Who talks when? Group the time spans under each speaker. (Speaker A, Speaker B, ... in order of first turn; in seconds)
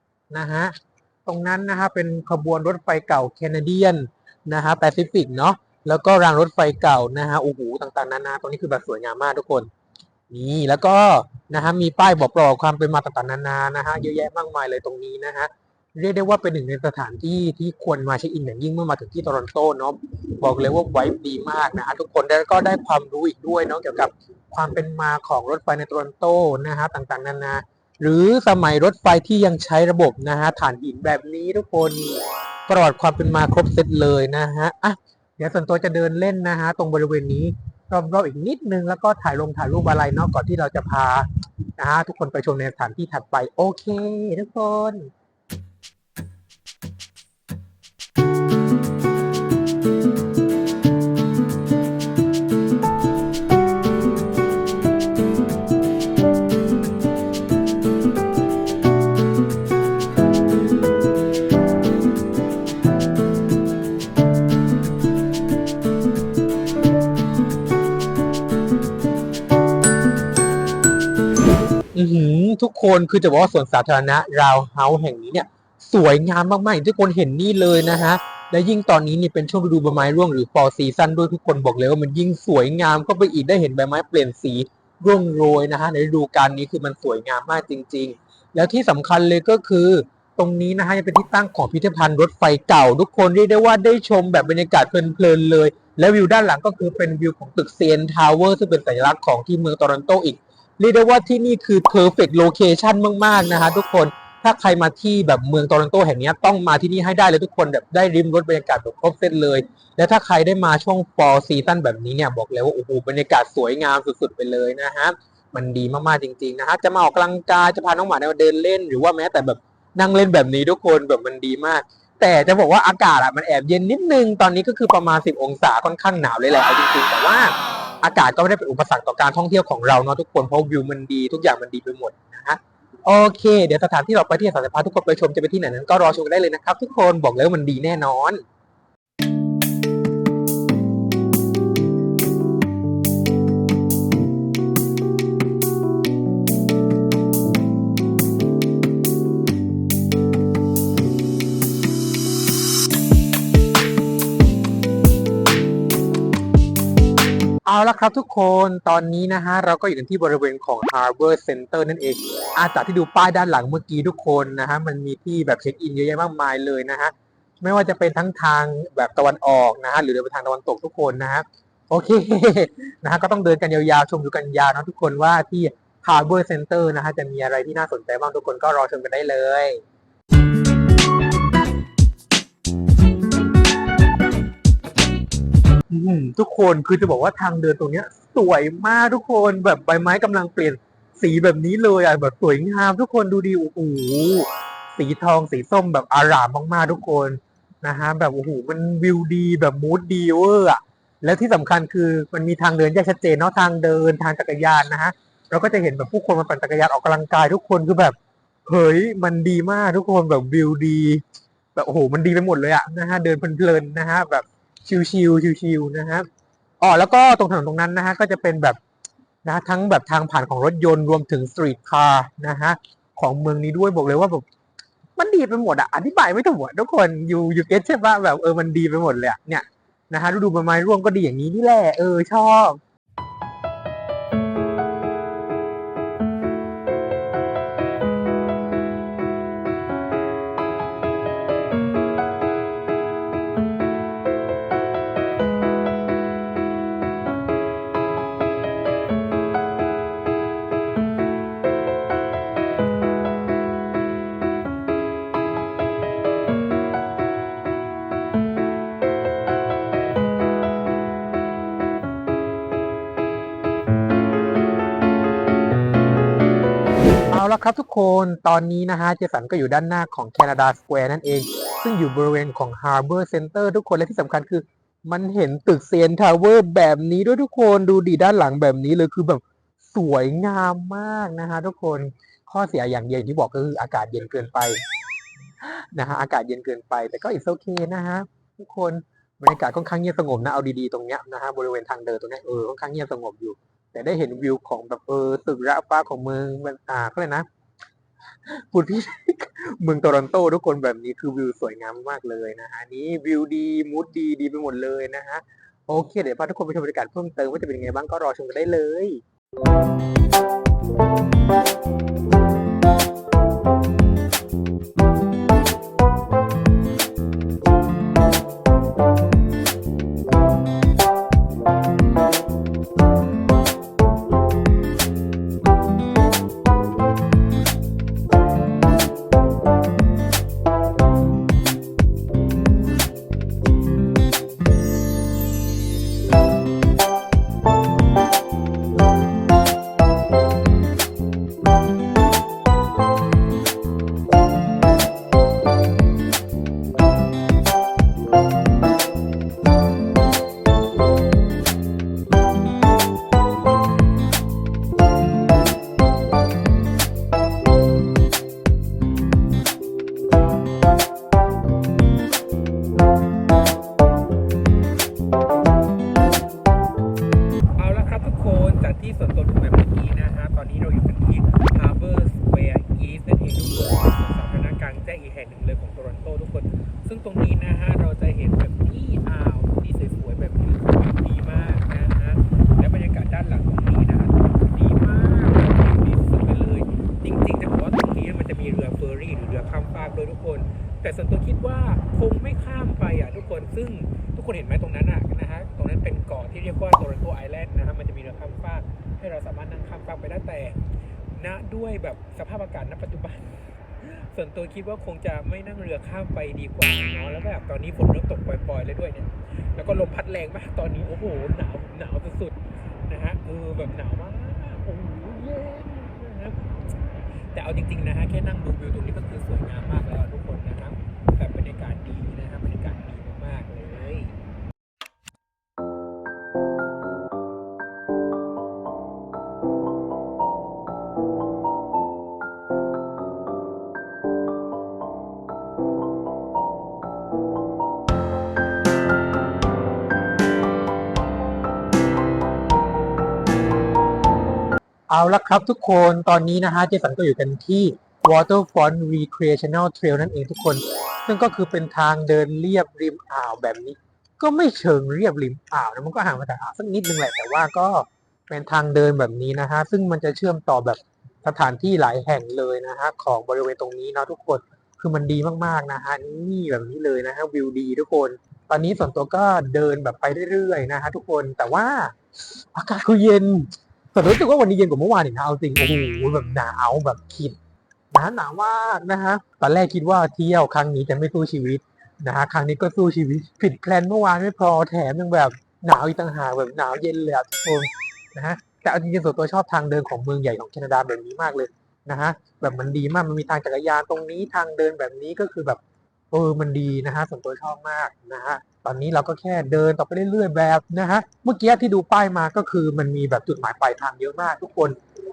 Speaker A: 0.3-0.7, 1.2-9.7, 10.3-45.1, 71.9-138.4, 157.7-179.8, 185.9-211.2, 211.7-216.3, 216.8-218.8, 219.4-224.4, 225.2-232.8, 267.3-284.8, 285.6-297.4, 298.5-309.2, 367.8-424.4, 445.1-477.6, 478.1-505.0